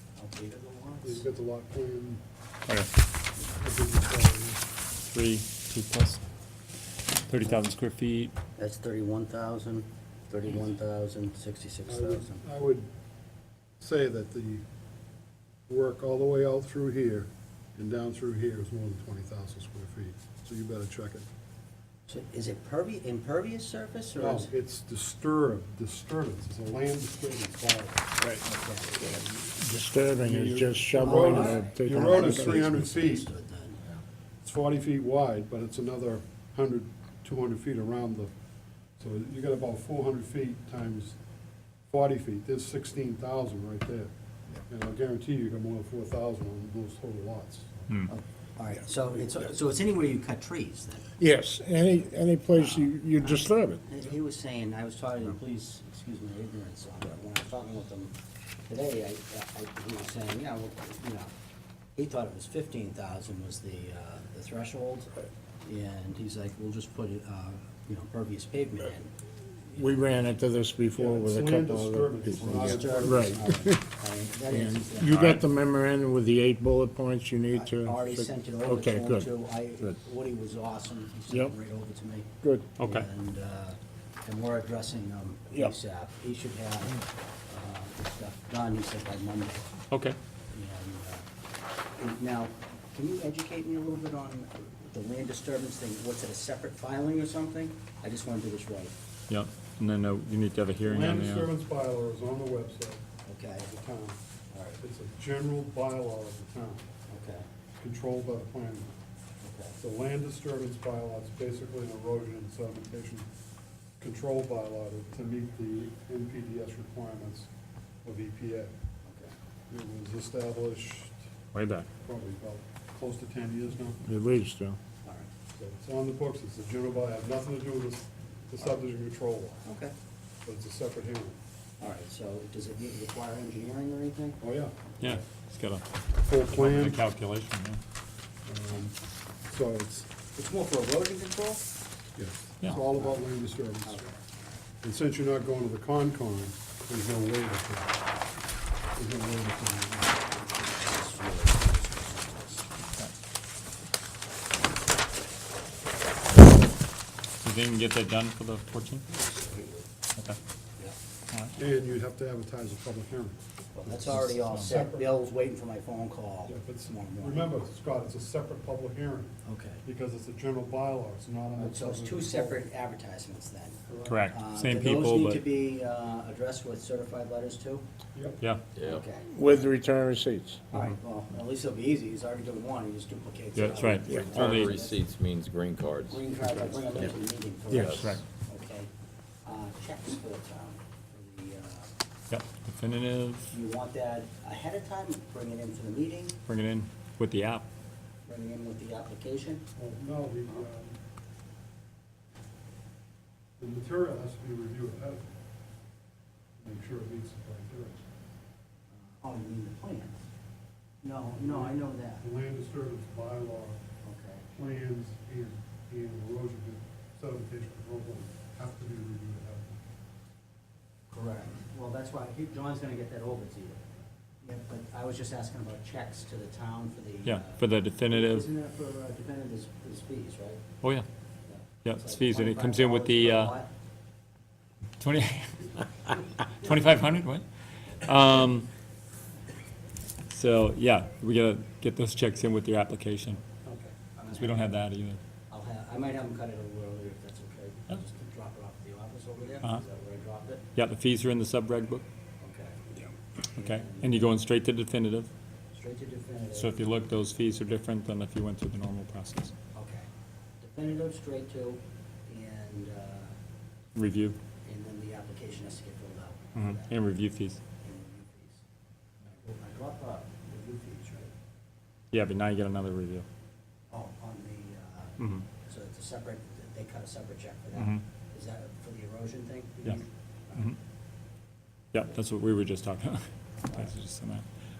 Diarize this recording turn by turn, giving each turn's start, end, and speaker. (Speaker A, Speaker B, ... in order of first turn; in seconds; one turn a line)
Speaker A: 0.1-1.2
Speaker B: 1.0-2.2
Speaker B: 3.5-4.6
Speaker C: 5.1-6.2
Speaker C: 7.3-8.3
Speaker A: 8.6-12.4
Speaker B: 11.9-12.9
Speaker B: 13.8-14.6
Speaker B: 15.7-21.3
Speaker A: 22.1-24.5
Speaker B: 24.1-28.1
Speaker A: 28.4-29.3
Speaker D: 29.4-32.7
Speaker B: 30.1-33.2
Speaker A: 31.0-33.8
Speaker B: 34.4-38.3
Speaker B: 39.0-41.1
Speaker B: 41.9-44.1
Speaker B: 44.7-47.9
Speaker A: 48.1-51.1
Speaker D: 51.2-53.8
Speaker A: 52.5-58.1
Speaker A: 58.7-61.3
Speaker A: 62.0-65.1
Speaker A: 65.6-69.1
Speaker D: 69.7-73.8
Speaker B: 70.9-73.4
Speaker A: 72.3-75.4
Speaker D: 74.5-79.9
Speaker A: 77.5-89.7
Speaker D: 82.4-82.7
Speaker C: 82.8-83.0
Speaker C: 89.9-90.2
Speaker A: 90.5-91.2
Speaker A: 92.0-98.9
Speaker C: 99.3-101.5
Speaker B: 100.8-103.0
Speaker A: 103.2-103.8
Speaker B: 103.7-104.2
Speaker A: 104.5-104.8
Speaker B: 104.8-106.9
Speaker A: 107.1-107.5
Speaker B: 107.8-109.0
Speaker A: 109.4-109.8
Speaker B: 109.8-113.3
Speaker B: 114.0-117.5
Speaker B: 118.0-118.7
Speaker A: 119.0-119.3
Speaker B: 119.7-121.2
Speaker C: 121.5-121.9
Speaker B: 122.0-124.0
Speaker D: 124.0-124.8
Speaker A: 125.0-125.3
Speaker B: 125.5-129.7
Speaker A: 129.6-129.9
Speaker B: 130.4-131.4
Speaker A: 131.8-134.4
Speaker B: 134.4-134.7
Speaker A: 134.9-135.2
Speaker C: 135.0-135.8
Speaker B: 136.2-137.0
Speaker C: 136.5-137.8
Speaker B: 138.4-138.9
Speaker B: 139.5-140.1
Speaker A: 140.3-141.6
Speaker B: 142.2-144.0
Speaker A: 142.7-144.2
Speaker B: 144.8-147.9
Speaker B: 148.9-150.2
Speaker A: 150.5-152.7
Speaker C: 157.4-159.0
Speaker A: 159.1-159.8
Speaker B: 161.6-163.4
Speaker A: 163.7-167.5
Speaker B: 164.1-165.1
Speaker C: 164.3-164.7
Speaker B: 166.5-172.6
Speaker A: 169.4-169.8
Speaker A: 171.6-177.8
Speaker B: 173.9-174.2
Speaker C: 174.0-175.4
Speaker B: 178.1-178.4
Speaker E: 178.7-179.0
Speaker A: 178.8-179.7
Speaker D: 179.3-180.6
Speaker A: 180.7-185.0
Speaker C: 183.5-184.7
Speaker E: 183.6-186.3
Speaker A: 186.1-188.9
Speaker E: 187.7-188.2
Speaker C: 187.8-188.2
Speaker A: 189.4-191.9
Speaker C: 192.3-193.5
Speaker A: 193.5-196.3
Speaker C: 196.4-197.7
Speaker A: 198.2-199.6
Speaker B: 199.8-201.0
Speaker B: 203.6-205.3
Speaker B: 206.6-208.0
Speaker A: 208.9-210.2
Speaker A: 211.0-212.2
Speaker B: 211.4-213.8
Speaker A: 214.0-214.4
Speaker B: 214.5-219.8
Speaker A: 221.1-230.6
Speaker C: 227.2-228.5
Speaker A: 231.5-233.7
Speaker C: 231.8-233.6
Speaker C: 235.0-235.8
Speaker C: 236.5-238.7
Speaker C: 240.3-243.4
Speaker A: 243.6-244.7
Speaker C: 244.3-245.2
Speaker A: 245.5-250.6
Speaker C: 250.8-252.0
Speaker A: 252.4-252.9
Speaker A: 253.5-254.4
Speaker C: 253.6-255.3
Speaker A: 255.7-256.8
Speaker C: 256.6-259.5
Speaker A: 259.7-260.1
Speaker A: 260.6-263.4
Speaker C: 263.9-264.4
Speaker A: 264.6-266.9
Speaker C: 266.6-267.6
Speaker A: 267.8-268.6
Speaker A: 269.3-271.3
Speaker C: 272.1-273.2
Speaker A: 273.9-280.7
Speaker C: 275.2-275.4
Speaker C: 277.7-278.0
Speaker C: 281.9-284.4